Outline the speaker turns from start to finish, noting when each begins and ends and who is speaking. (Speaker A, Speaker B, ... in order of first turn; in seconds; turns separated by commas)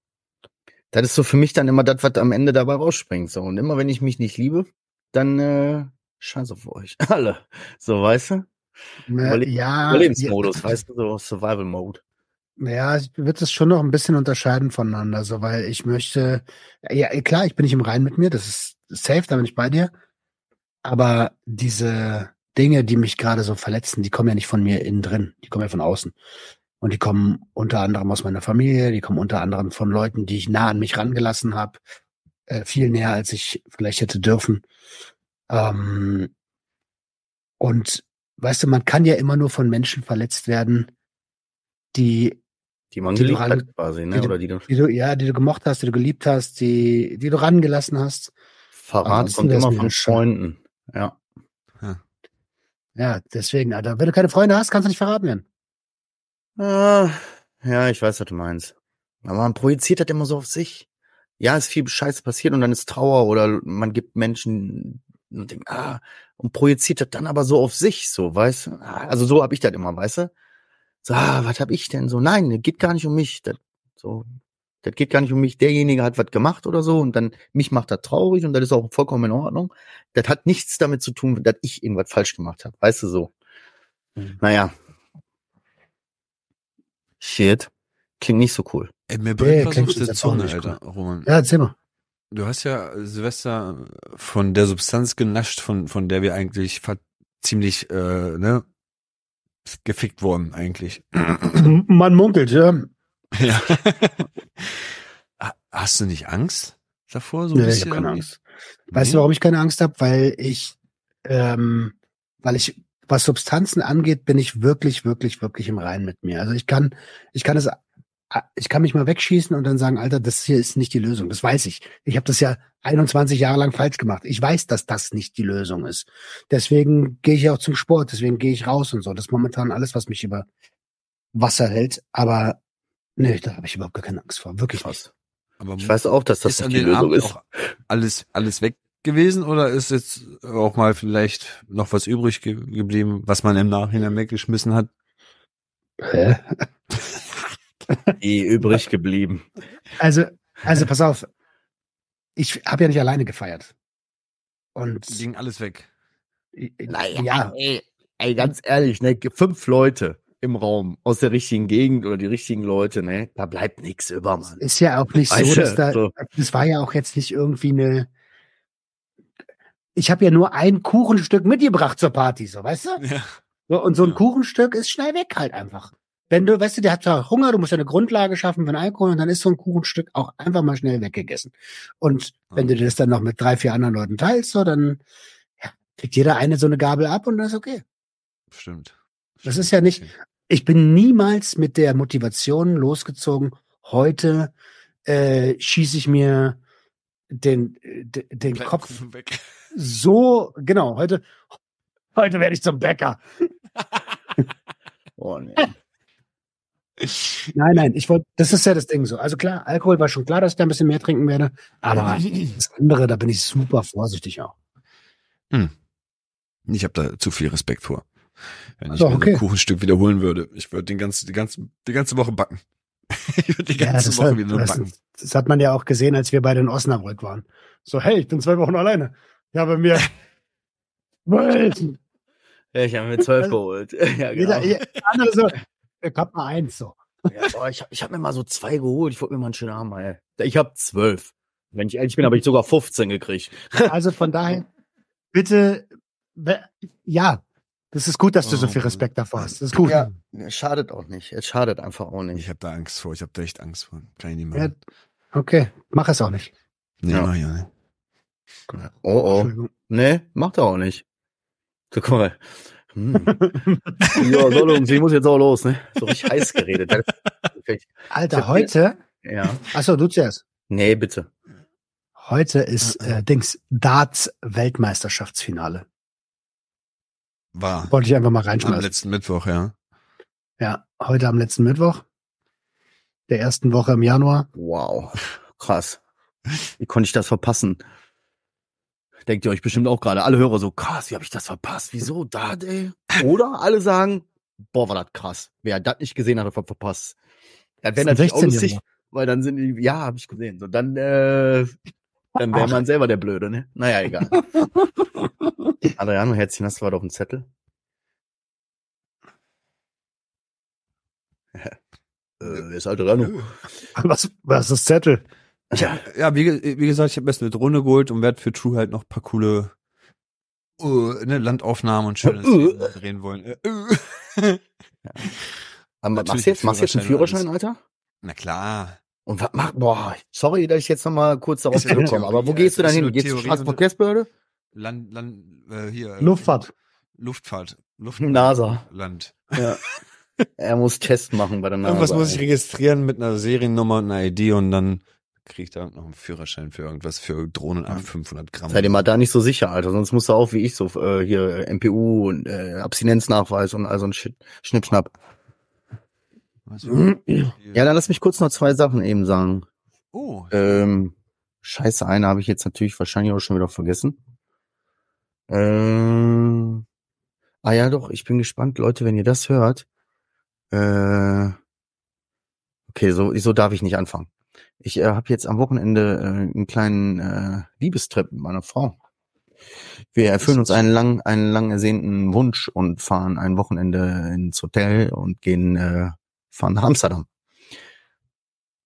Speaker A: 0.9-8.5, Speaker B: 9.1-10.6, Speaker A: 9.2-12.0, Speaker B: 12.6-19.9, Speaker B: 20.8-26.1, Speaker B: 26.8-31.8, Speaker B: 32.5-34.6, Speaker B: 35.5-36.3, Speaker B: 37.6-40.9, Speaker B: 41.9-42.4, Speaker A: 42.9-44.7, Speaker B: 43.1-48.3, Speaker A: 48.8-51.2, Speaker B: 49.0-50.2, Speaker B: 53.0-55.5, Speaker A: 56.6-60.9, Speaker A: 61.4-70.3, Speaker A: 71.0-74.3, Speaker A: 74.8-83.3, Speaker A: 84.4-84.7, Speaker A: 87.2-88.9, Speaker C: 89.1-91.3, Speaker B: 89.4-91.7, Speaker C: 92.3-98.7, Speaker C: 99.7-101.7, Speaker B: 101.6-102.9, Speaker C: 103.4-104.8, Speaker C: 105.4-108.4, Speaker B: 107.5-108.2, Speaker C: 108.9-109.2, Speaker B: 108.9-117.8, Speaker B: 118.3-130.5, Speaker B: 131.3-132.6, Speaker B: 133.2-134.9, Speaker A: 134.8-135.1, Speaker C: 135.6-144.9, Speaker A: 135.8-137.3, Speaker B: 146.0-146.7, Speaker A: 148.2-149.5, Speaker B: 150.0-151.3, Speaker B: 152.4-153.7, Speaker B: 154.8-155.2, Speaker C: 155.1-155.9, Speaker B: 156.6-157.6, Speaker A: 156.9-164.6, Speaker B: 164.6-168.1, Speaker A: 165.3-166.1, Speaker B: 169.9-173.0, Speaker C: 173.0-173.4, Speaker B: 173.7-185.0, Speaker C: 174.0-174.2, Speaker C: 182.5-182.8, Speaker B: 185.6-187.8, Speaker C: 188.5-190.1, Speaker B: 189.4-194.5, Speaker B: 195.1-196.6, Speaker B: 197.3-199.0, Speaker C: 198.5-199.5, Speaker B: 199.7-201.3, Speaker B: 202.2-203.2, Speaker A: 205.2-205.7, Speaker B: 207.5-214.5, Speaker C: 216.7-218.1, Speaker C: 218.8-224.9, Speaker B: 218.9-219.4, Speaker B: 223.8-230.1, Speaker B: 231.3-232.0, Speaker A: 232.7-234.8, Speaker B: 234.3-237.0, Speaker A: 237.3-243.9, Speaker B: 243.9-244.7, Speaker B: 245.3-250.0, Speaker C: 248.4-250.1, Speaker A: 249.8-252.5, Speaker C: 252.3-254.7, Speaker B: 255.3-256.5, Speaker C: 257.0-257.7, Speaker A: 258.7-261.1, Speaker B: 259.3-259.7, Speaker A: 261.9-263.5, Speaker B: 263.2-264.2, Speaker A: 264.1-268.7, Speaker B: 268.1-269.0, Speaker A: 269.2-269.6, Speaker B: 269.7-270.4, Speaker A: 270.7-271.3, Speaker B: 272.2-275.9, Speaker C: 272.9-273.2, Speaker C: 277.5-277.9, Speaker B: 277.9-278.9, Speaker C: 278.6-279.7, Speaker B: 280.6-282.0, Speaker B: 283.3-284.5, Speaker A: 284.6-286.0, Speaker A: 286.8-287.8, Speaker A: 289.3-297.2, Speaker A: 297.8-301.8, Speaker B: 298.0-298.8, Speaker A: 302.4-304.4, Speaker A: 305.9-307.5, Speaker A: 312.4-313.4, Speaker C: 313.2-313.5, Speaker B: 313.9-315.2, Speaker A: 315.7-316.0, Speaker C: 316.0-319.7, Speaker C: 320.8-324.6, Speaker A: 322.2-322.9, Speaker C: 325.2-325.5, Speaker A: 326.0-327.8, Speaker C: 326.1-327.4, Speaker C: 328.2-329.0, Speaker A: 329.3-334.3, Speaker C: 331.8-333.8, Speaker C: 334.7-336.6, Speaker B: 336.2-336.7, Speaker C: 337.2-339.9, Speaker A: 338.2-338.8, Speaker A: 340.6-342.5, Speaker C: 341.8-349.0, Speaker A: 348.7-355.1, Speaker C: 356.7-357.8, Speaker A: 356.9-359.7, Speaker C: 360.1-360.8, Speaker A: 360.5-364.2, Speaker A: 365.5-366.8, Speaker A: 367.6-369.9, Speaker A: 370.7-371.6, Speaker A: 372.9-374.3, Speaker A: 374.8-379.0, Speaker A: 380.1-387.3, Speaker B: 380.4-380.9